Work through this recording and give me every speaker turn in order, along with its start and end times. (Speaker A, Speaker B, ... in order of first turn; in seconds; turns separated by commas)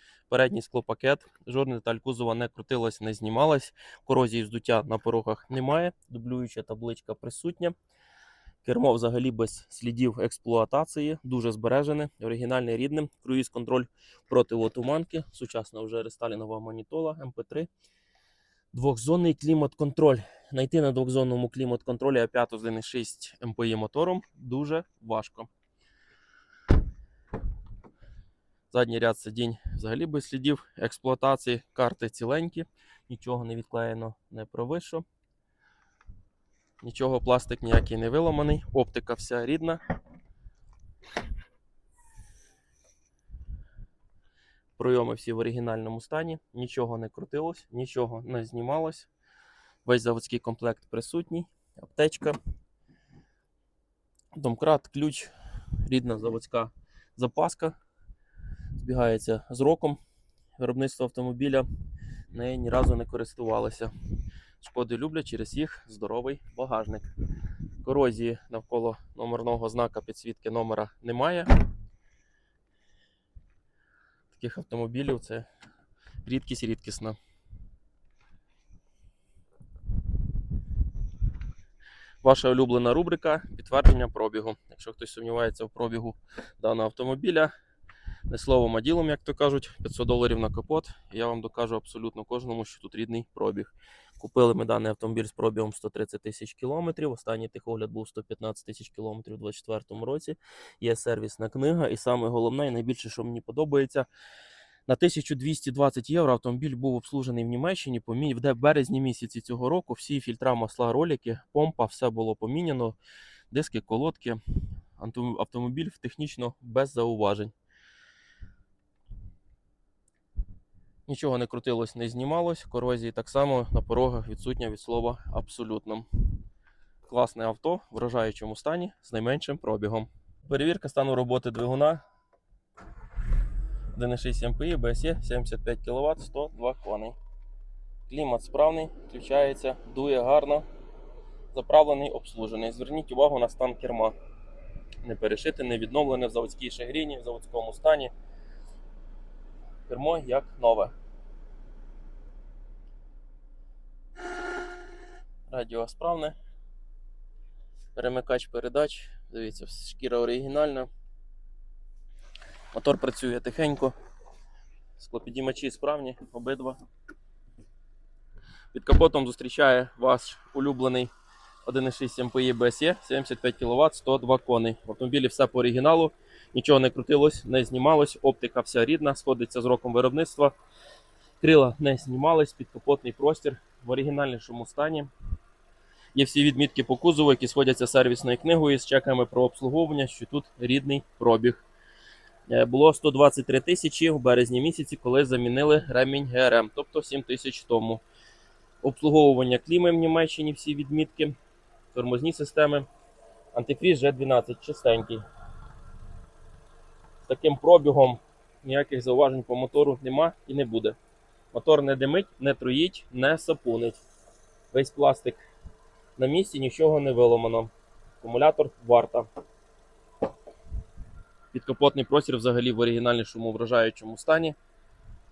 Speaker A: 0.3-7.8, Speaker A: 8.6-17.7, Speaker A: 18.7-25.5, Speaker A: 28.7-35.0, Speaker A: 36.8-39.8, Speaker A: 44.8-49.1, Speaker A: 49.9-52.4, Speaker A: 54.3-55.3, Speaker A: 55.8-57.8, Speaker A: 58.8-60.0, Speaker A: 60.6-61.7, Speaker A: 62.3-63.9, Speaker A: 64.6-67.1, Speaker A: 67.8-71.5, Speaker A: 74.3-75.5, Speaker A: 76.2-77.2, Speaker A: 82.2-87.5, Speaker A: 88.3-104.1, Speaker A: 104.9-113.0, Speaker A: 113.5-114.4, Speaker A: 115.0-117.5, Speaker A: 121.1-126.1, Speaker A: 127.1-132.0, Speaker A: 133.9-137.2, Speaker A: 138.1-140.7, Speaker A: 141.5-144.2, Speaker A: 145.0-148.1, Speaker A: 149.9-150.9, Speaker A: 155.5-156.4, Speaker A: 157.9-160.9, Speaker A: 162.7-163.9, Speaker A: 165.0-166.8, Speaker A: 168.7-171.1, Speaker A: 171.7-180.6, Speaker A: 181.4-185.1, Speaker A: 186.1-191.6, Speaker A: 192.5-198.0, Speaker A: 198.8-201.3, Speaker A: 201.9-202.9, Speaker A: 203.5-205.2, Speaker A: 207.2-211.0, Speaker A: 211.5-214.0, Speaker A: 214.7-215.4, Speaker A: 216.2-219.3, Speaker A: 221.5-224.6